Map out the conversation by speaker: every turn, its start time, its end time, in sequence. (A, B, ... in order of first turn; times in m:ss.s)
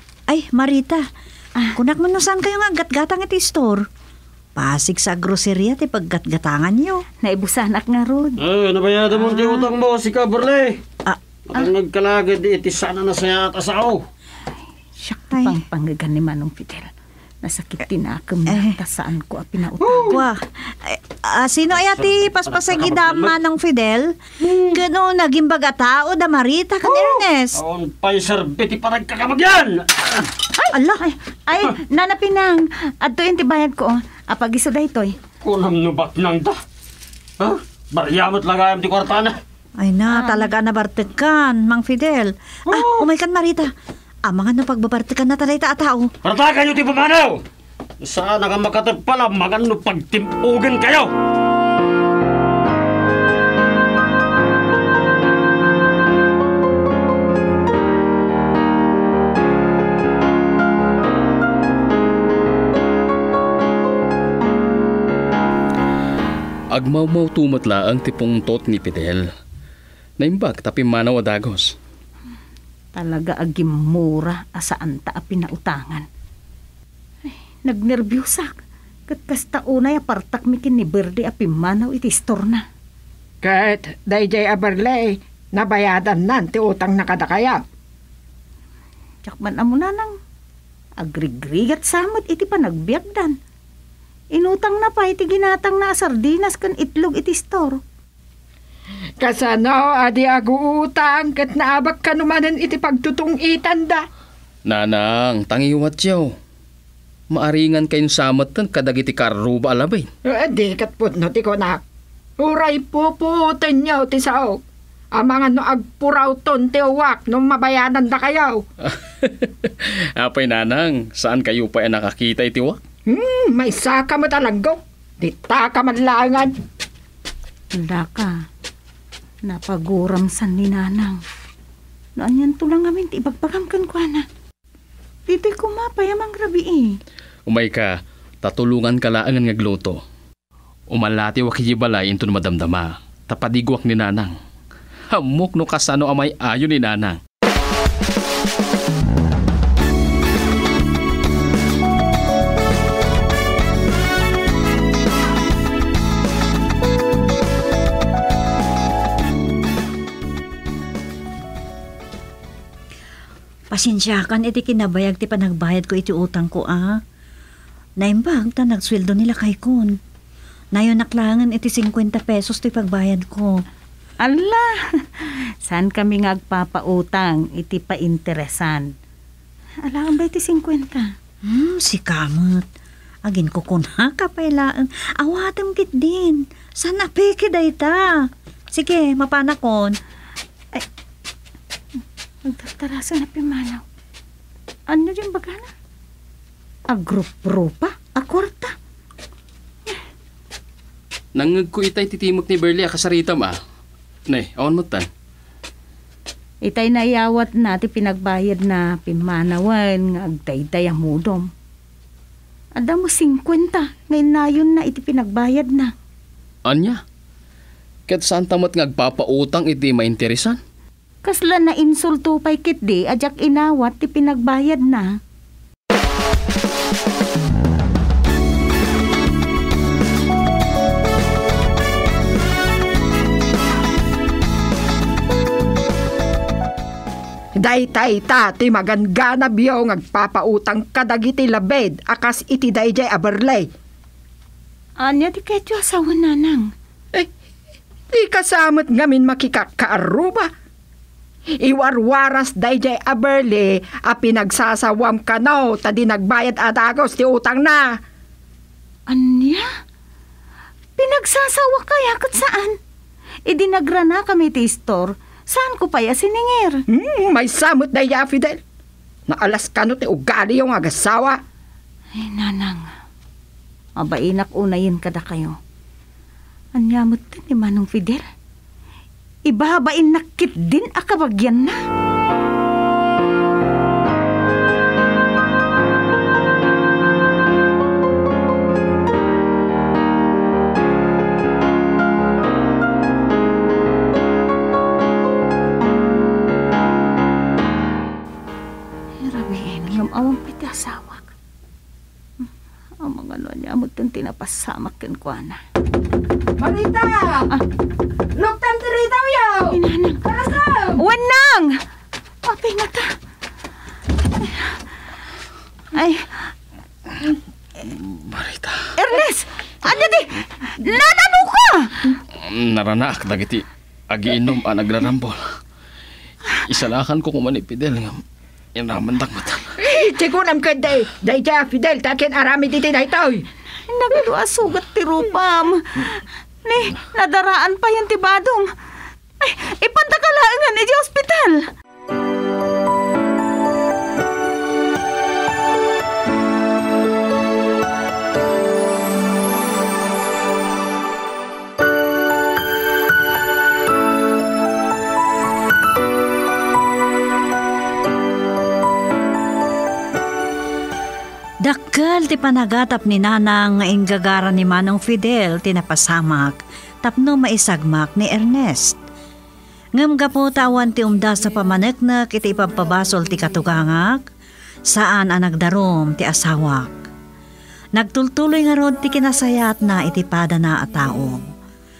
0:00.3-0:01.0 A
0:01.7-0:03.9 A
0:04.6-0:07.0 A
0:07.2-0:08.4 B
0:08.4-0:10.8 C
0:11.5-0:14.0 C
0:15.0-0:20.2 B
0:15.3-0:15.6 A
0:18.5-0:18.8 A
0:19.9-0:20.2 C
0:19.9-0:27.6 A
0:22.0-0:23.4 C
0:26.9-0:30.3 C
0:30.6-0:35.2 B
0:30.7-0:31.0 A
0:35.4-0:36.6 C
0:37.4-0:39.4 C
0:39.8-0:43.7 A
0:40.1-0:40.4 B
0:42.7-0:43.1 C
0:44.2-0:46.1 A
0:46.2-0:47.4 C
0:48.0-0:51.1 C
1:06.7-1:09.3 D
1:10.2-1:11.7 D
1:12.9-1:16.0 B
1:17.2-1:18.6 B
1:19.1-1:22.6 B
1:23.4-1:27.6 E
1:29.2-1:30.2 B
1:31.0-1:33.4 B
1:34.3-1:37.8 B
1:39.2-1:44.0 E
1:44.6-1:46.3 D
1:47.3-1:50.1 D
1:50.2-1:51.8 E
1:52.4-1:54.6 E
1:55.1-1:58.6 E
1:58.8-2:02.8 D
2:03.1-2:06.5 E
2:07.7-2:08.4 B
2:09.4-2:11.2 B
2:12.2-2:14.2 B
2:15.3-2:17.0 B
2:17.5-2:20.0 D
2:20.9-2:24.3 D
2:25.1-2:27.2 D
2:43.7-2:47.0 A
2:48.0-2:50.0 A
2:50.7-2:53.6 A
2:54.2-2:58.9 B
2:59.8-3:01.1 B
3:01.4-3:02.7 A
3:03.2-3:10.0 A
3:12.4-3:13.8 B
3:14.9-3:15.7 B
3:16.9-3:18.7 B
3:21.3-3:23.6 D
3:24.3-3:25.1 D
3:26.6-3:31.5 B
3:32.8-3:35.9 B
3:36.6-3:37.0 D
3:38.1-3:40.6 D
3:41.2-3:45.2 B
3:57.6-4:03.7 E
4:05.0-4:06.7 B
4:08.1-4:10.5 E
4:11.6-4:18.0 E
4:19.1-4:19.7 B
4:21.0-4:22.8 B
4:23.5-4:26.8 B
4:26.9-4:28.6 E
4:29.3-4:31.4 E
4:32.1-4:32.9 B
4:34.0-4:35.6 B
4:36.7-4:38.3 B
4:39.5-4:41.8 B
4:59.2-5:01.3 B
5:03.0-5:05.6 B
5:06.6-5:07.5 E
5:08.3-5:11.0 E
5:09.7-5:10.2 B
5:11.0-5:11.8 B
5:12.4-5:13.1 B
5:14.4-5:14.7 B
5:15.9-5:16.5 B
5:17.8-5:18.9 D
5:19.0-5:22.2 B
5:22.3-5:25.4 D
5:26.5-5:28.2 D
5:28.8-5:29.8 D
5:29.8-5:33.4 E
5:33.8-5:38.7 B
5:39.4-5:41.7 B
6:01.6-6:09.0 A
6:09.9-6:14.2 A
6:14.9-6:17.1 A
6:17.9-6:21.4 A